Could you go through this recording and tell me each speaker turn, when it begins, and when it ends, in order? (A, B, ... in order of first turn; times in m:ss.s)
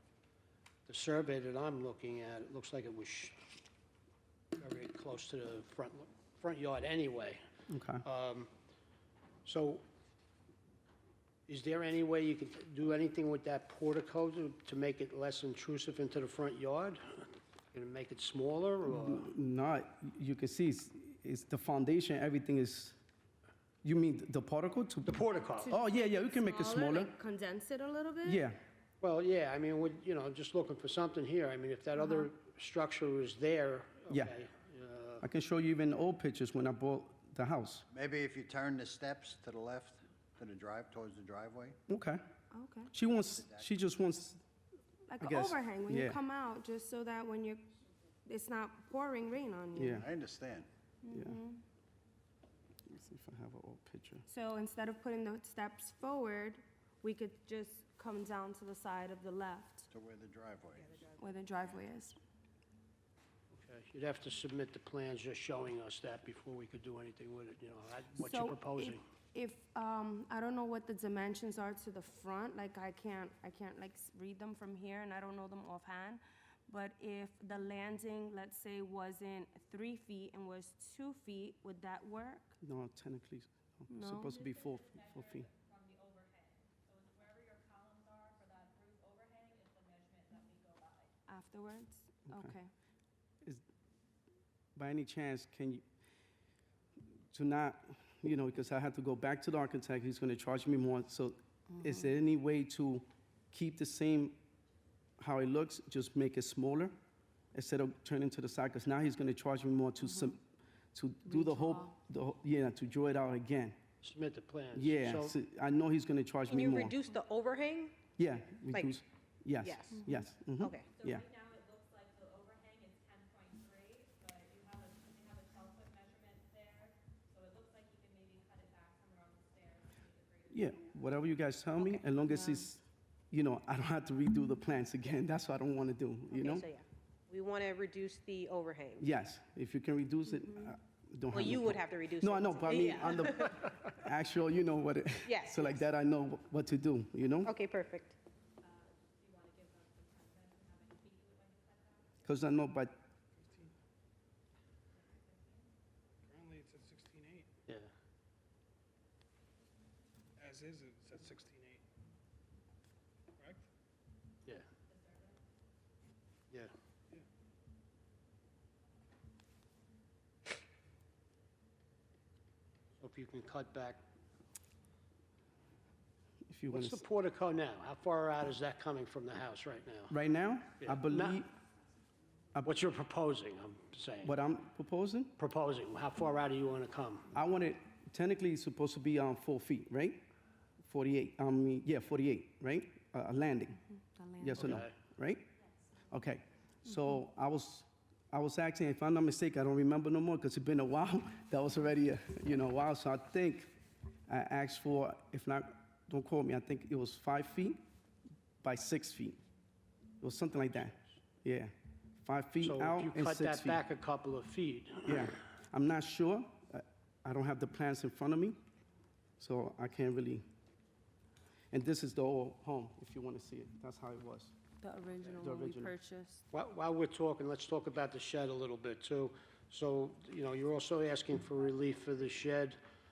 0:00.8-0:03.4 A
0:04.6-0:07.4 A
0:07.7-0:08.0 B
0:08.0-0:08.5 A
0:09.4-0:09.8 A
0:11.5-0:19.3 A
0:18.9-0:23.0 B
0:23.8-0:25.2 B
0:25.0-0:25.7 A
0:25.6-0:28.4 C
0:25.7-0:27.1 B
0:28.2-0:28.6 B
0:29.0-0:35.2 A
0:32.0-0:32.3 C
0:35.2-0:37.9 B
0:37.9-0:41.8 D
0:41.9-0:42.2 B
0:42.5-0:42.9 C
0:42.9-0:44.4 B
0:43.3-0:43.6 D
0:45.1-0:47.7 C
0:45.2-0:46.2 B
0:48.2-0:50.1 C
0:49.7-0:50.1 B
0:50.0-0:50.7 D
0:51.0-0:51.6 C
0:51.1-0:51.4 B
0:52.9-0:54.2 B
0:54.3-0:59.9 C
0:59.9-1:01.0 D
1:01.2-1:02.2 C
1:03.5-1:09.0 A
1:08.2-1:22.6 C
1:22.6-1:25.5 B
1:23.9-1:24.3 C
1:24.3-1:31.1 E
1:31.3-1:32.7 C
1:34.8-1:35.8 B
1:37.3-1:44.4 B
1:45.2-1:47.0 B
1:47.5-1:50.4 B
1:50.9-1:53.8 B
1:51.3-1:51.9 C
1:54.0-1:55.3 A
1:54.7-1:57.0 B
1:56.5-1:57.9 F
1:58.2-2:01.2 B
1:59.6-1:59.9 F
1:59.9-2:00.2 C
2:00.6-2:00.9 F
2:01.0-2:11.2 E
2:10.5-2:16.7 B
2:12.3-2:12.6 C
2:16.3-2:19.0 F
2:19.0-2:27.5 B
2:21.3-2:23.5 F
2:25.2-2:25.8 F
2:27.4-2:28.2 F
2:28.6-2:32.2 E
2:32.2-2:33.0 B
2:33.4-2:33.7 G
2:34.9-2:35.7 E
2:36.2-2:37.5 G
2:40.4-2:41.8 G
2:43.4-2:43.6 G
2:44.8-2:45.4 E
2:53.0-2:54.0 A
2:56.5-2:57.0 B
2:56.7-3:00.2 A
3:00.1-3:01.5 B
3:00.8-3:01.4 A
3:02.6-3:04.3 A
3:04.2-3:05.3 B
3:05.4-3:07.3 A
3:07.3-3:10.2 B
3:10.8-3:13.8 B
3:13.8-3:14.8 C
3:14.4-3:15.5 B
3:14.6-3:14.9 A
3:16.1-3:23.7 B
3:24.3-3:27.8 B
3:28.6-3:29.4 B
3:30.2-3:31.7 B
3:30.7-3:31.0 A
3:32.2-3:33.8 B
3:32.6-3:35.3 A
3:35.1-3:38.6 B
3:39.4-3:40.4 B
3:41.7-3:44.5 B
3:44.8-3:46.4 C
3:45.4-3:45.9 B
3:46.5-3:52.8 A